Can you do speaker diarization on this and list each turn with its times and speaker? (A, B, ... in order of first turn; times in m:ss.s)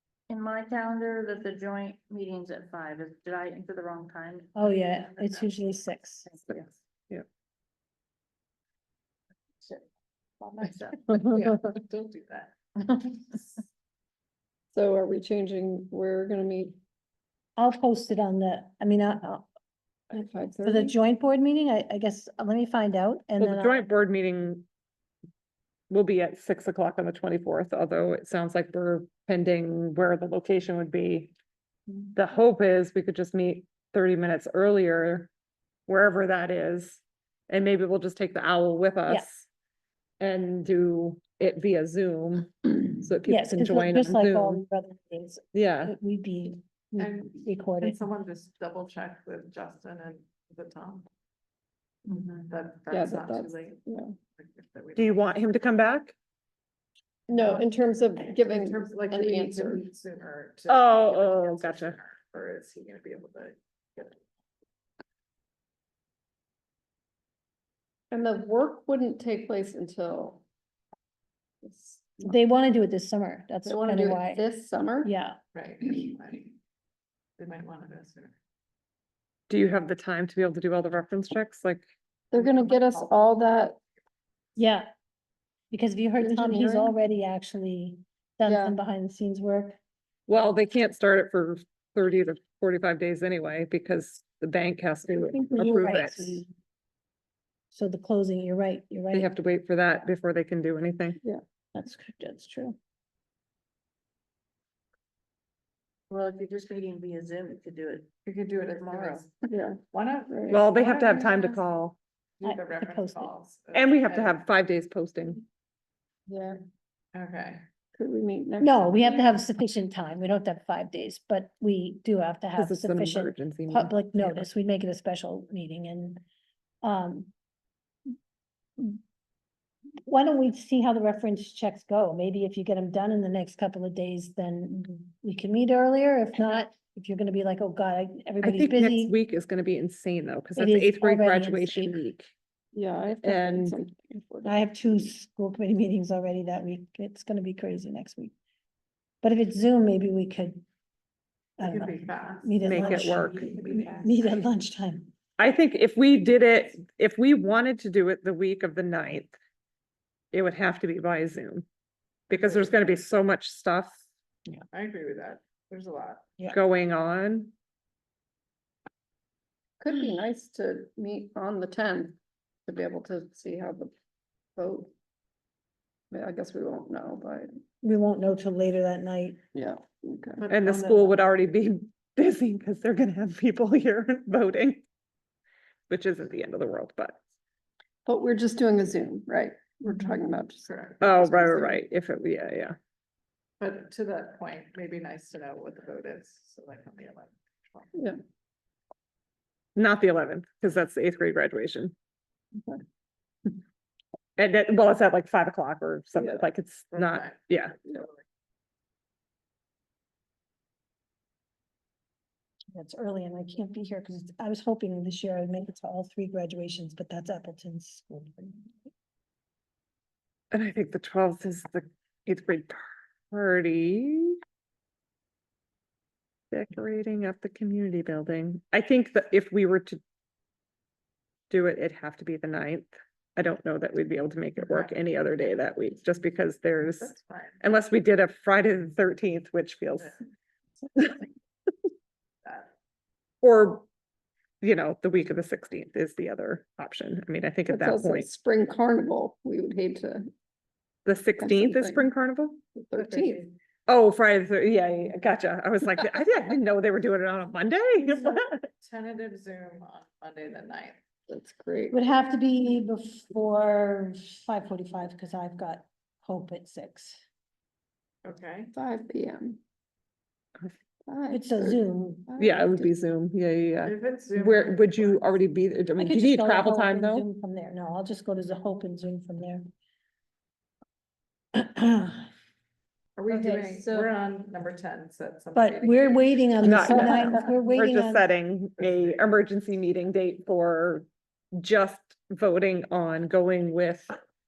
0:00.3-0:06.7 A
0:04.5-0:06.3 B
0:10.4-0:11.3 A
0:10.5-0:12.5 C
0:14.7-0:16.8 D
0:17.6-0:19.5 B
0:20.1-0:20.9 D
0:20.6-0:23.9 B
0:23.4-0:24.6 E
0:25.9-0:31.3 E
0:32.1-0:35.3 E
0:35.9-0:39.5 E
0:40.2-0:44.6 E
0:43.2-0:48.0 B
0:45.5-0:45.9 E
0:47.0-0:51.0 C
0:52.0-0:53.8 C
0:52.9-0:54.2 D
0:54.3-0:55.3 C
0:55.0-0:56.1 E
0:57.3-0:59.8 D
0:57.3-0:57.7 C
0:58.4-1:04.2 C
1:00.7-1:02.0 E
1:08.1-1:10.4 D
1:11.6-1:12.3 D
1:12.2-1:14.4 B
1:13.6-1:15.1 D
1:15.0-1:15.4 B
1:15.5-1:16.5 C
1:17.4-1:18.4 C
1:19.5-1:21.9 E
1:22.3-1:23.8 D
1:22.3-1:23.8 C
1:24.6-1:24.9 B
1:25.7-1:29.8 B
1:26.2-1:26.9 D
1:28.4-1:28.8 D
1:30.3-1:36.4 E
1:35.1-1:35.9 D
1:35.5-1:36.5 B
1:37.7-1:39.3 B
1:39.1-1:41.2 E
1:41.7-1:42.8 B
1:46.1-1:48.1 A
1:48.2-1:51.6 C
1:48.7-1:49.2 A
1:49.5-1:49.8 D
1:50.3-1:50.6 D
1:50.5-1:52.0 E
1:52.4-1:54.4 C
1:52.4-1:53.3 B
1:53.7-1:55.4 E
1:56.3-1:56.6 D
1:57.1-1:57.6 C
1:57.9-1:59.3 D
1:58.6-2:06.2 B
2:02.5-2:04.4 E
2:06.8-2:07.3 B
2:10.0-2:19.2 B
2:18.4-2:22.3 E
2:20.6-2:22.0 B
2:22.7-2:25.1 D
2:23.2-2:23.8 E
2:24.4-2:28.3 B
2:29.2-2:30.6 B
2:31.6-2:34.4 C
2:31.6-2:35.1 B
2:32.6-2:33.4 E
2:35.4-2:39.3 E
2:40.3-2:41.6 E
2:42.3-2:44.0 E
2:42.3-2:42.7 C
2:44.7-2:46.4 C
2:46.5-2:47.5 E
2:49.8-2:53.9 D
2:54.6-2:54.9 D
2:56.1-2:57.6 D
2:57.8-2:59.4 B
2:59.5-3:00.4 D
3:00.4-3:01.2 C
3:00.5-3:04.8 E
3:05.9-3:07.2 E
3:08.0-3:11.8 D
3:10.5-3:11.2 C
3:11.0-3:12.8 E
3:13.6-3:18.0 C
3:17.9-3:18.2 D
3:19.8-3:21.9 E
3:24.4-3:27.7 E
3:26.9-3:28.2 C
3:32.7-3:38.7 B
3:40.5-3:44.4 E
3:46.5-3:50.0 E
3:51.5-4:00.2 E
3:54.6-3:54.9 C
3:57.0-3:57.6 C
4:02.4-4:02.7 C
4:03.4-4:03.8 E
4:04.6-4:08.3 E
4:07.7-4:10.3 D
4:11.0-4:12.6 E
4:11.4-4:12.1 D
4:12.7-4:13.4 D
4:12.9-4:13.6 C
4:13.9-4:18.6 E
4:18.8-4:21.0 C
4:21.3-4:22.0 D
4:21.9-4:27.2 B
4:28.2-4:28.7 C
4:28.7-4:29.6 D
4:31.0-4:32.9 D
4:31.3-4:32.2 B
4:32.4-4:37.2 E
4:33.8-4:35.3 C
4:36.0-4:39.6 B
4:41.5-4:42.3 B
4:43.2-4:47.6 C
4:43.3-4:44.1 D
4:45.5-4:48.2 B
4:46.6-4:54.2 E
4:48.8-4:49.2 C